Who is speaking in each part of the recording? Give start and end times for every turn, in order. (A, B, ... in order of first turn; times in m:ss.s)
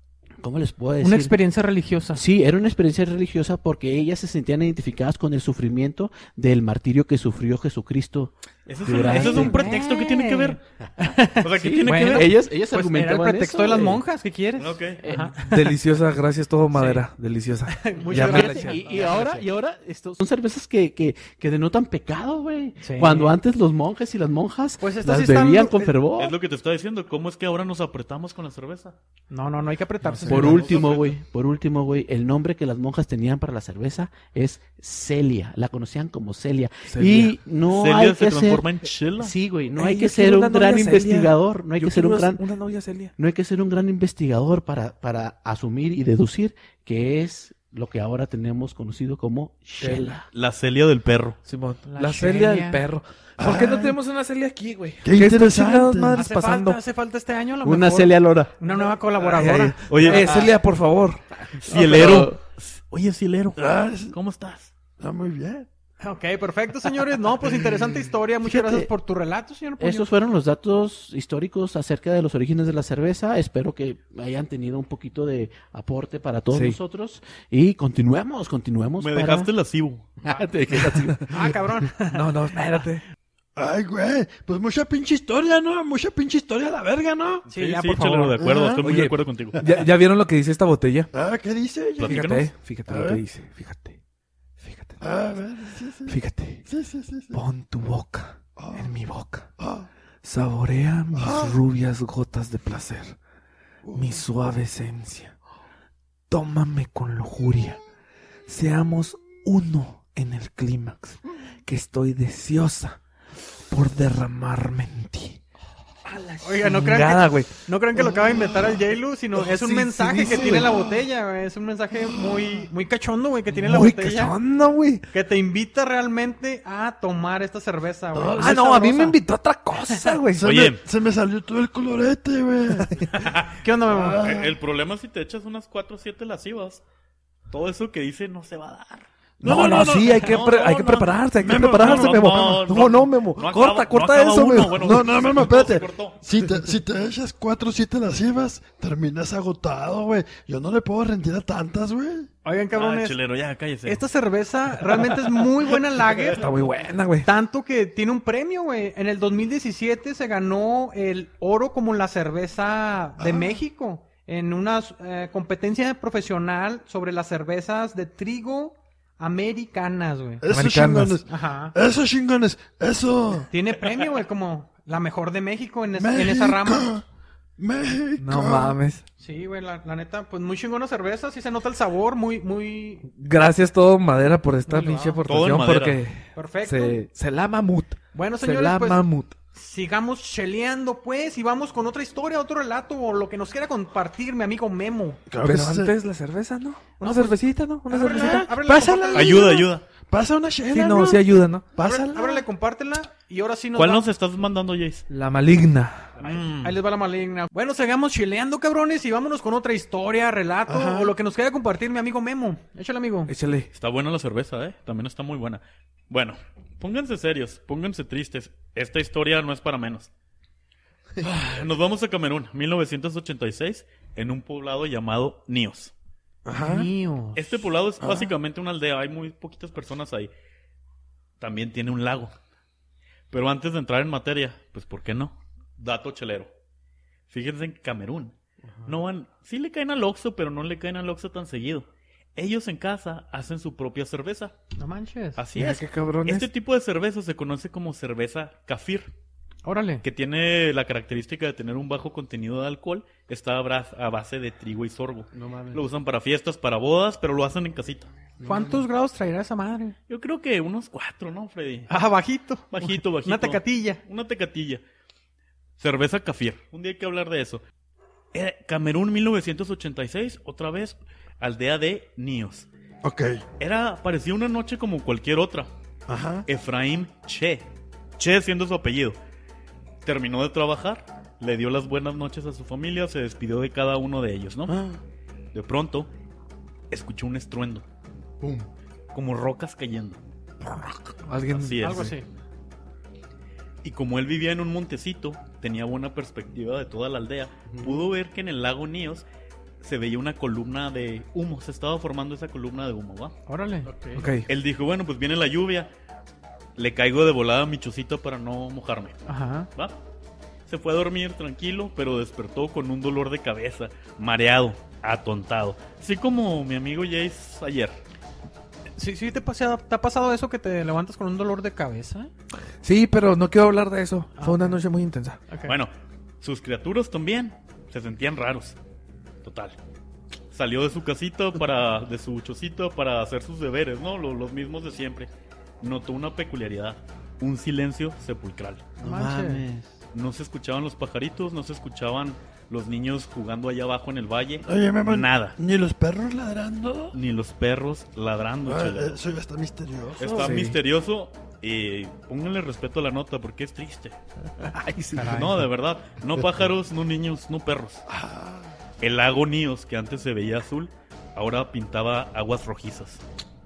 0:00.4-0:01.4 A
0:01.0-0:02.2 B
0:02.1-0:09.7 A
0:08.7-0:10.6 C
0:08.9-0:15.7 B
0:11.4-0:12.4 C
0:11.5-0:14.0 A
0:14.6-0:15.0 C
0:15.0-0:15.3 A
0:15.4-0:18.9 D
0:16.7-0:17.0 B
0:17.7-0:19.4 B
0:18.1-0:26.4 A
0:22.8-0:23.3 B
0:24.8-0:25.9 B
0:26.2-0:29.0 C
0:29.3-0:30.8 B
0:30.1-0:30.5 D
0:30.3-0:42.4 A
0:30.4-0:31.2 C
0:36.9-0:37.3 D
0:37.7-0:39.3 C
0:39.8-0:43.1 D
0:43.2-0:50.2 A
0:49.8-0:50.2 D
0:50.3-0:51.4 C
0:51.4-0:56.8 D
0:51.8-0:52.8 B
0:53.4-0:54.0 E
0:55.0-0:56.3 E
0:56.1-1:00.1 B
0:57.6-0:58.5 A
0:59.2-1:01.4 D
0:59.9-1:00.4 C
1:01.6-1:04.7 C
1:01.6-1:02.4 A
1:03.6-1:04.2 E
1:05.0-1:05.7 E
1:06.0-1:10.1 B
1:08.4-1:08.9 A
1:09.8-1:19.5 A
1:16.5-1:16.8 D
1:19.0-1:20.1 C
1:20.2-1:21.5 A
1:20.9-1:21.2 D
1:21.3-1:22.4 B
1:22.0-1:23.0 D
1:23.6-1:27.4 E
1:27.5-1:28.4 B
1:27.5-1:29.7 C
1:28.4-1:28.8 E
1:28.8-1:31.1 D
1:31.1-1:33.2 E
1:32.0-1:32.5 C
1:32.0-1:34.0 D
1:34.6-1:35.0 D
1:35.0-1:37.4 E
1:36.1-1:36.6 D
1:37.3-1:39.5 D
1:38.6-1:39.0 E
1:39.6-1:39.9 E
1:40.2-1:43.2 D
1:41.1-1:41.6 E
1:43.8-1:44.3 E
1:43.9-1:45.3 D
1:46.3-1:47.8 D
1:48.5-1:53.0 D
1:53.7-1:55.4 D
1:56.0-1:57.6 D
1:56.4-2:04.4 B
1:58.3-1:58.6 E
1:59.5-2:00.7 D
2:00.2-2:00.9 E
2:02.2-2:02.4 E
2:03.6-2:05.0 D
2:05.1-2:09.2 B
2:08.1-2:08.9 E
2:08.4-2:10.5 D
2:09.8-2:10.2 B
2:10.3-2:13.0 E
2:10.4-2:10.8 C
2:13.1-2:13.6 C
2:13.6-2:14.2 B
2:13.9-2:14.5 E
2:14.2-2:16.8 C
2:17.5-2:26.2 C
2:19.4-2:20.3 E
2:19.4-2:25.1 D
2:21.4-2:22.7 E
2:24.7-2:32.3 E
2:32.4-2:33.2 B
2:32.7-2:34.0 C
2:33.8-2:36.5 B
2:36.3-2:37.3 D
2:37.2-2:50.4 B
2:43.2-2:43.6 E
2:50.4-2:53.5 E
2:50.5-2:51.2 D
2:51.2-2:51.7 B
2:53.5-2:56.9 B
2:55.9-2:57.0 E
2:57.6-2:58.8 E
2:58.2-2:59.0 D
2:59.2-3:03.0 B
3:03.1-3:09.3 D
3:04.7-3:05.2 B
3:05.2-3:06.0 C
3:06.3-3:07.0 B
3:08.1-3:15.2 B
3:15.3-3:16.0 E
3:15.4-3:18.6 D
3:17.0-3:19.6 B
3:18.0-3:22.4 E
3:19.1-3:19.8 C
3:20.7-3:22.0 D
3:21.8-3:24.0 B
3:23.7-3:25.0 C
3:25.1-3:26.1 D
3:26.2-3:26.8 C
3:26.2-3:33.3 B
3:30.7-3:31.1 E
3:33.3-3:33.7 D
3:33.7-3:40.1 C
3:41.2-3:45.9 C
3:46.4-3:46.9 E
3:46.6-3:47.6 B
3:47.3-3:50.3 C
3:48.0-3:48.3 E
3:51.4-3:52.3 C
3:53.3-3:56.5 C
3:57.3-3:58.3 C
3:58.8-4:04.5 C
4:04.8-4:05.4 B
4:05.4-4:09.1 C
4:05.5-4:06.5 D
4:09.6-4:10.0 B
4:10.0-4:18.1 C
4:15.3-4:15.8 A
4:18.4-4:18.8 A
4:18.4-4:19.9 B
4:20.1-4:21.9 C
4:21.9-4:24.0 B
4:22.7-4:24.8 C
4:25.8-4:27.6 C
4:28.3-4:32.7 C
4:33.0-4:33.4 E
4:33.6-4:35.7 C
4:36.1-4:36.4 E
4:36.4-4:39.2 C
4:40.0-4:44.8 C
4:44.7-4:45.0 E
4:45.5-4:46.1 C
4:46.9-4:47.8 C
4:49.1-4:50.2 C
4:51.2-4:52.1 D
4:51.5-4:52.1 C
4:51.8-4:52.2 B
4:53.8-4:59.2 C
4:57.7-4:58.0 A
4:59.8-5:03.3 C
5:03.5-5:03.9 B
5:03.8-5:04.2 A
5:04.1-5:04.4 D
5:04.5-5:05.9 C
5:06.8-5:09.2 C
5:09.3-5:09.7 B
5:10.7-5:18.0 C
5:19.0-5:22.3 B
5:22.8-5:25.4 D
5:24.4-5:24.8 B
5:25.5-5:25.8 B
5:25.7-5:28.8 C
5:29.4-5:29.8 C
5:30.5-5:35.3 C
5:35.8-5:38.8 C
5:39.0-5:39.9 A
5:39.0-5:39.6 B
5:40.1-5:45.6 C
5:44.6-5:47.2 E
5:47.1-5:49.2 C
5:48.6-5:50.6 E
5:50.2-5:54.2 C
5:50.3-5:50.8 D
5:54.8-5:55.4 D
5:55.1-5:55.6 B
5:55.2-5:58.0 C
5:58.1-5:58.7 E
5:59.0-6:03.2 C